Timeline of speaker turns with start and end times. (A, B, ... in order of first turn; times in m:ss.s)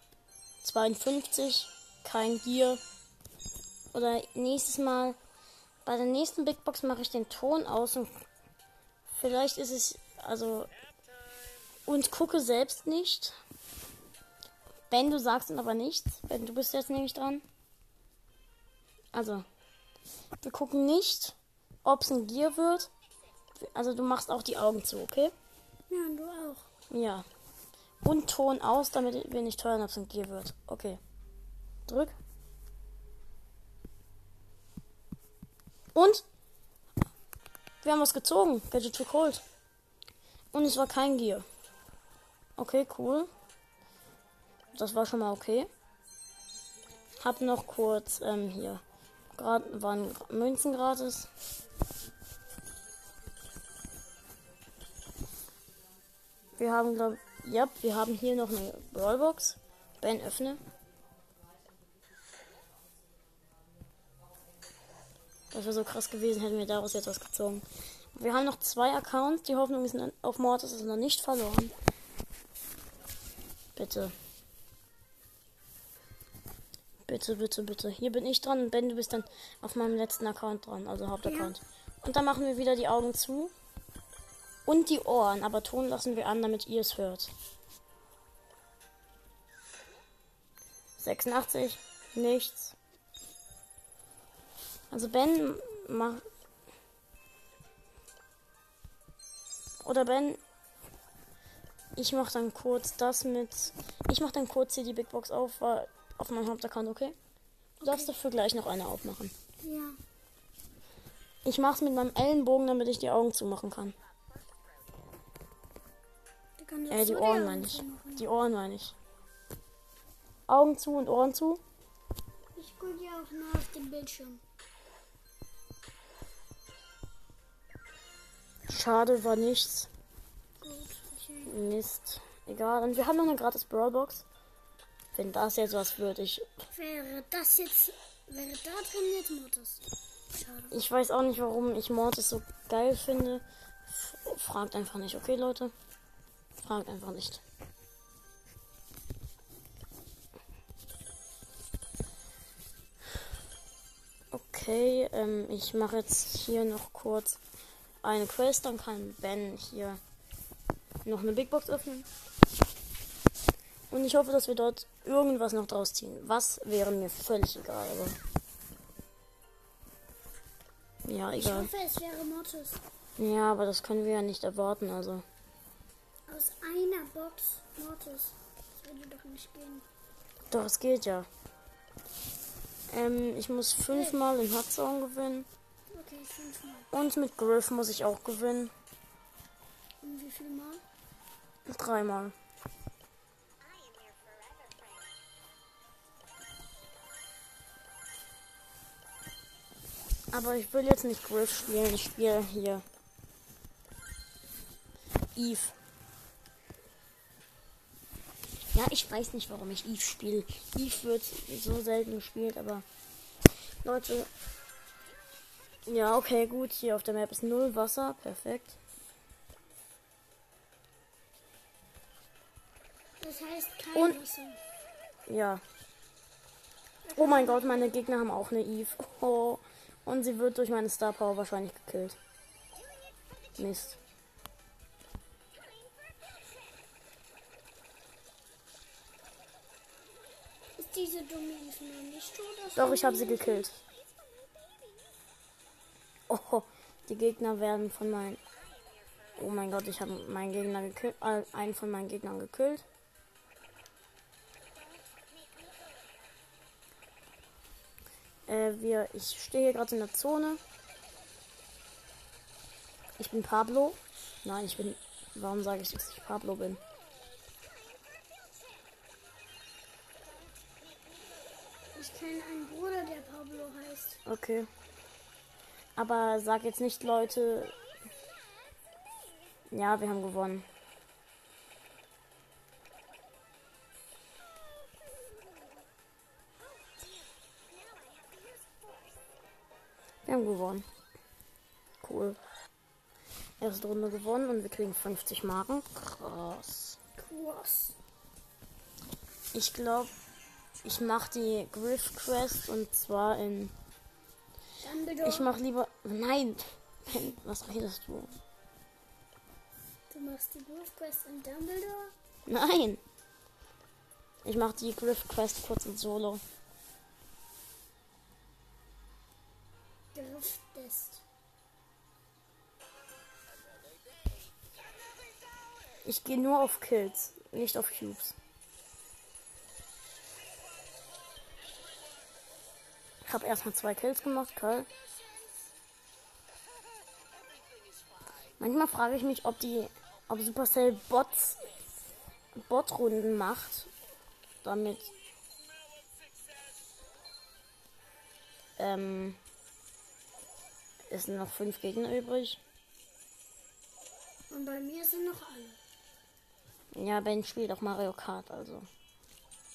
0:00.6-0:02.8 A
0:03.9-0:05.2 A
0:05.8-0:08.1 A
0:09.1-0:10.7 A
0:11.9-0:13.4 A
0:14.9-0:17.4 A
0:19.1-0:19.4 A
0:20.4-0:22.9 A
0:23.5-0:25.3 A
0:25.9-0:26.7 B
0:26.9-0:27.2 A
0:28.0-0:31.0 A
0:31.9-0:32.1 A
0:35.9-0:36.2 A
0:37.8-0:39.4 A
0:40.5-0:41.4 A
0:42.6-0:43.3 A
0:44.7-0:45.7 A
0:47.2-0:48.8 A
0:49.4-0:51.3 A
0:56.6-1:00.6 A
1:05.5-1:11.7 A
1:13.8-1:14.1 A
1:17.1-1:23.5 A
1:21.2-1:21.5 B
1:24.6-1:27.3 A
1:31.0-1:32.8 A
1:34.9-1:36.2 A
1:39.8-1:40.4 A
1:42.0-1:47.2 A
1:47.8-1:48.1 B
1:47.8-1:49.3 A
1:49.6-1:50.0 B
1:51.4-1:53.9 A
1:56.6-1:58.2 B
1:56.9-1:58.9 A
2:00.5-2:01.6 A
2:02.6-2:04.4 B
2:08.7-2:09.9 A
2:10.6-2:11.5 B
2:11.4-2:14.2 A
2:15.1-2:16.4 A
2:16.7-2:20.7 B
2:20.7-2:25.7 A
2:26.6-2:27.4 A
2:34.3-2:37.4 A
2:38.0-2:40.0 A
2:41.0-2:42.1 A
2:43.9-2:48.2 A
2:51.0-2:51.7 A
2:51.3-2:52.8 B
2:53.2-2:55.2 A
2:56.3-2:59.8 B
3:00.5-3:01.3 A
3:02.9-3:05.5 A
3:03.9-3:04.2 B
3:05.9-3:06.9 B
3:06.9-3:08.7 A
3:10.0-3:10.8 B
3:11.7-3:12.3 A
3:20.3-3:22.8 A
3:25.3-3:25.8 A
3:28.7-3:32.8 A
3:33.8-3:34.3 A
3:35.9-3:38.8 A
3:43.2-3:44.6 B
3:43.9-3:44.2 A
3:45.3-3:45.6 A
3:47.0-3:48.0 B
3:47.2-3:52.2 A
3:53.6-3:54.0 A
4:00.8-4:03.7 B
4:02.8-4:03.8 A
4:06.3-4:08.4 A
4:09.4-4:12.8 A
4:18.5-4:20.6 A
4:23.2-4:26.8 A
4:31.9-4:34.2 B
4:34.2-4:34.7 A
4:36.0-4:37.7 A
4:39.7-4:40.6 A
4:50.2-4:50.8 A
4:52.0-4:52.4 A
4:53.6-4:57.0 A
4:57.2-4:58.0 B
4:59.5-5:00.1 A
5:00.8-5:03.7 A
5:04.8-5:05.5 B
5:05.2-5:08.4 A
5:10.1-5:12.1 B
5:12.4-5:13.0 A
5:14.4-5:16.4 A
5:20.1-5:21.2 B
5:26.0-5:28.4 A
5:33.2-5:34.9 A
5:38.6-5:41.6 A
5:42.6-5:43.9 A
5:44.6-5:45.1 A
5:48.8-5:49.4 A
5:51.1-5:52.6 A
5:54.5-5:55.8 B
5:56.9-5:58.9 A